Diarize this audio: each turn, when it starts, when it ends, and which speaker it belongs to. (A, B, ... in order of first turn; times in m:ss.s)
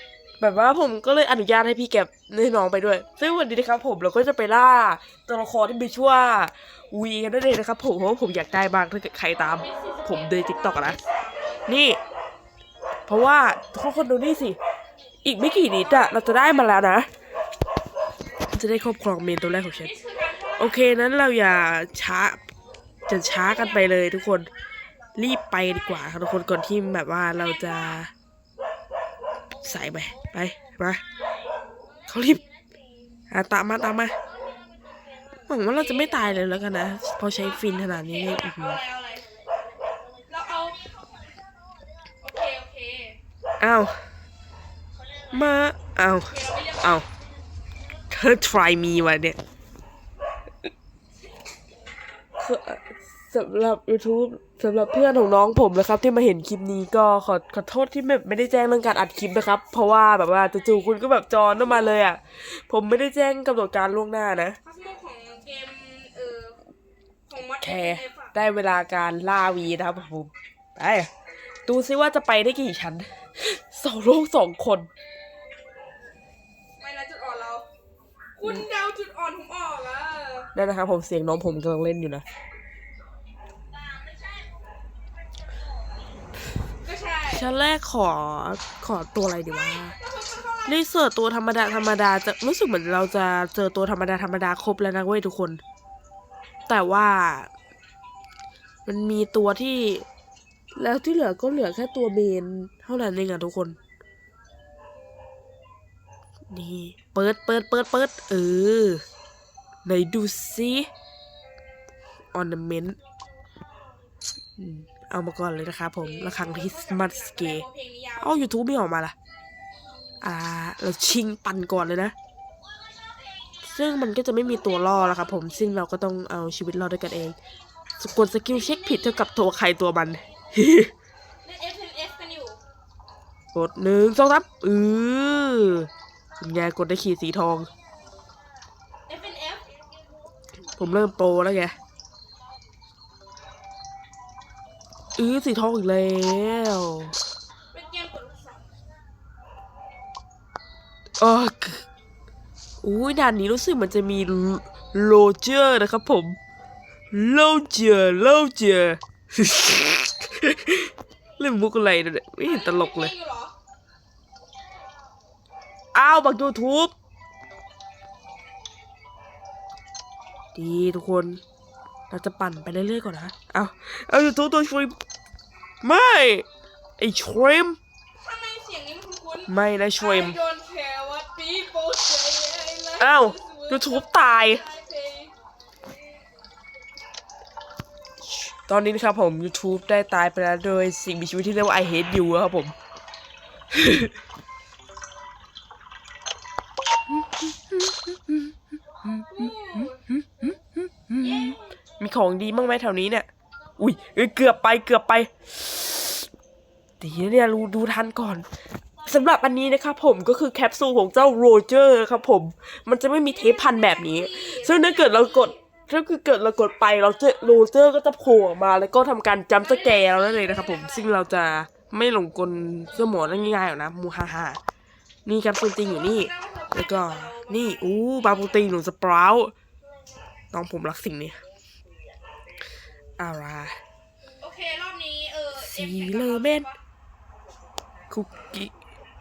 0:00.4-0:11.0 A
0:09.5-0:11.7 B
0:11.7-0:12.0 A
0:13.1-0:14.6 A
0:15.2-0:17.1 A
0:15.4-0:16.8 B
0:18.5-0:19.9 A
0:19.7-0:20.8 B
0:20.6-0:22.4 A
0:23.1-0:24.5 A
0:25.2-0:28.1 A
0:27.4-0:28.0 B
0:29.6-0:31.0 A
0:32.1-0:32.4 A
0:33.3-0:34.2 A
0:35.5-0:38.8 A
0:35.8-0:36.4 B
0:37.3-0:39.3 B
0:40.3-0:40.9 B
0:42.2-0:43.2 B
0:43.6-0:44.0 A
0:45.3-0:47.1 A
0:46.3-0:47.0 B
0:48.1-0:49.4 A
0:52.4-1:04.6 A
1:00.4-1:02.0 B
1:04.6-1:06.6 B
1:07.3-1:08.4 B
1:07.6-1:11.1 A
1:11.7-1:14.9 A
1:16.8-1:17.7 B
1:18.4-1:20.5 B
1:20.5-1:22.2 A
1:26.8-1:27.5 B
1:27.3-1:30.0 A
1:30.0-1:30.8 B
1:30.7-1:35.6 A
1:36.7-1:37.5 A
1:38.9-1:40.1 A
1:40.8-1:43.8 A
1:46.5-1:49.0 A
1:49.8-1:50.9 A
1:52.3-1:53.0 A
1:54.6-1:57.6 A
1:56.0-1:58.5 B
1:58.2-1:59.2 A
2:00.2-2:02.1 A
2:03.6-2:07.4 A
2:04.5-2:05.7 B
2:08.0-2:10.9 A
2:08.5-2:09.2 B
2:11.4-2:12.6 B
2:13.5-2:15.9 A
2:16.4-2:17.7 A
2:19.1-2:19.7 B
2:20.8-2:21.8 A
2:25.2-2:27.1 A
2:27.7-2:28.7 B
2:31.2-2:31.8 A
2:32.8-2:36.4 A
2:37.1-2:43.1 A
2:42.4-2:43.6 B
2:45.9-2:46.9 A
2:50.6-2:51.4 A
2:52.1-2:55.0 A
2:55.8-2:56.5 A
2:57.0-2:57.8 A
2:58.2-3:05.3 B
2:59.5-3:00.4 A
3:03.0-3:04.6 A
3:08.5-3:12.8 A
3:13.7-3:14.1 A
3:17.3-3:18.4 A
3:19.0-3:26.2 A
3:19.3-3:20.0 B
3:21.2-3:21.7 B
3:27.0-3:28.5 A
3:29.0-3:44.6 A
3:33.3-3:35.6 B
3:39.6-3:41.2 B
3:45.3-3:49.5 A
3:45.8-3:48.7 B
3:50.5-3:51.4 A
3:53.2-3:53.8 A
3:54.4-3:56.8 B
3:55.5-3:56.7 A
3:58.1-3:58.7 A